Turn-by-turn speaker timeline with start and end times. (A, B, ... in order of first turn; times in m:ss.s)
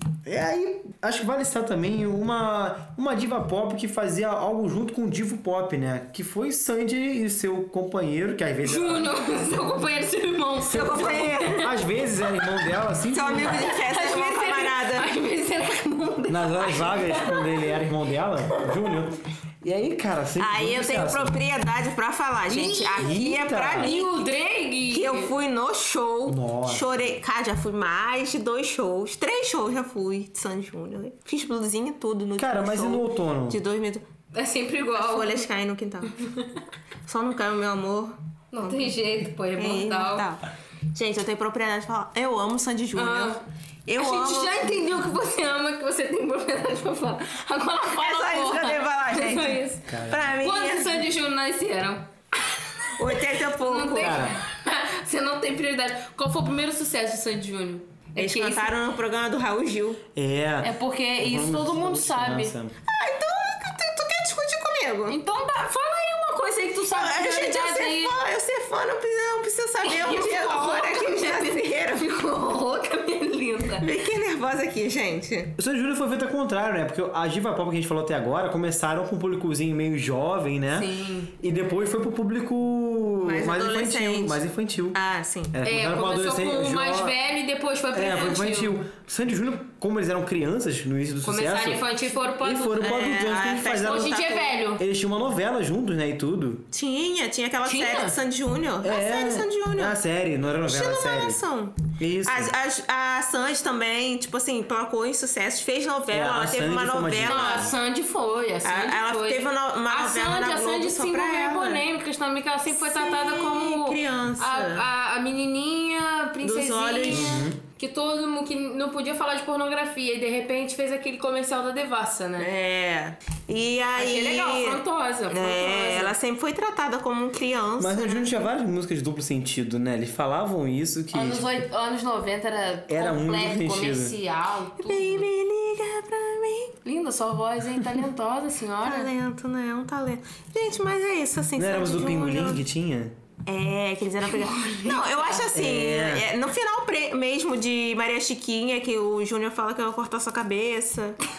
0:00.2-0:09.1 A
0:08.6-0:12.6 B
0:10.7-0:11.6 C
0:10.7-0:13.6 A
0:13.1-0:15.1 C
0:13.3-0:17.8 B
0:16.3-0:21.4 A
0:18.5-0:18.9 B
0:20.4-0:24.1 C
0:22.5-0:23.0 B
0:22.8-0:24.0 A
0:23.8-0:25.3 B
0:24.9-0:34.0 C
0:26.2-0:27.2 A
0:32.4-0:33.6 A
0:34.3-0:35.4 B
0:34.9-0:36.2 C
0:37.0-0:38.9 C
0:38.5-0:40.2 B
0:39.6-0:44.8 C
0:43.0-0:43.4 B
0:44.0-0:58.7 B
0:47.9-0:51.1 C
0:49.9-0:50.4 A
0:53.0-0:54.2 C
0:54.0-0:54.3 A
0:58.2-1:00.0 C
1:00.1-1:02.8 A
1:00.6-1:02.5 B
1:02.8-1:05.2 C
1:05.1-1:08.2 B
1:06.9-1:12.1 C
1:09.8-1:13.9 B
1:13.8-1:15.5 C
1:15.6-1:25.0 A
1:20.7-1:21.3 B
1:23.2-1:24.4 C
1:24.9-1:25.6 C
1:25.5-1:27.2 A
1:25.6-1:28.7 B
1:27.9-1:31.8 A
1:31.2-1:33.1 B
1:32.4-1:34.2 A
1:32.8-1:34.5 C
1:33.8-1:34.8 B
1:34.8-1:36.7 A
1:36.7-1:40.0 C
1:37.6-1:38.2 B
1:38.8-1:41.4 A
1:40.6-1:47.7 C
1:42.0-1:42.5 A
1:46.1-1:47.7 A
1:47.2-2:02.5 B
1:48.6-1:51.8 C
1:52.7-1:54.8 C
1:56.4-1:57.4 C
1:57.1-1:57.6 A
2:02.4-2:08.3 C
2:04.0-2:06.1 B
2:07.8-2:11.4 A
2:11.1-2:15.3 B
2:12.9-2:14.2 A
2:14.8-2:16.7 C
2:16.8-2:19.1 B
2:18.8-2:22.6 C
2:21.6-2:23.2 A
2:23.4-2:31.2 C
2:24.5-2:25.5 B
2:25.5-2:26.3 A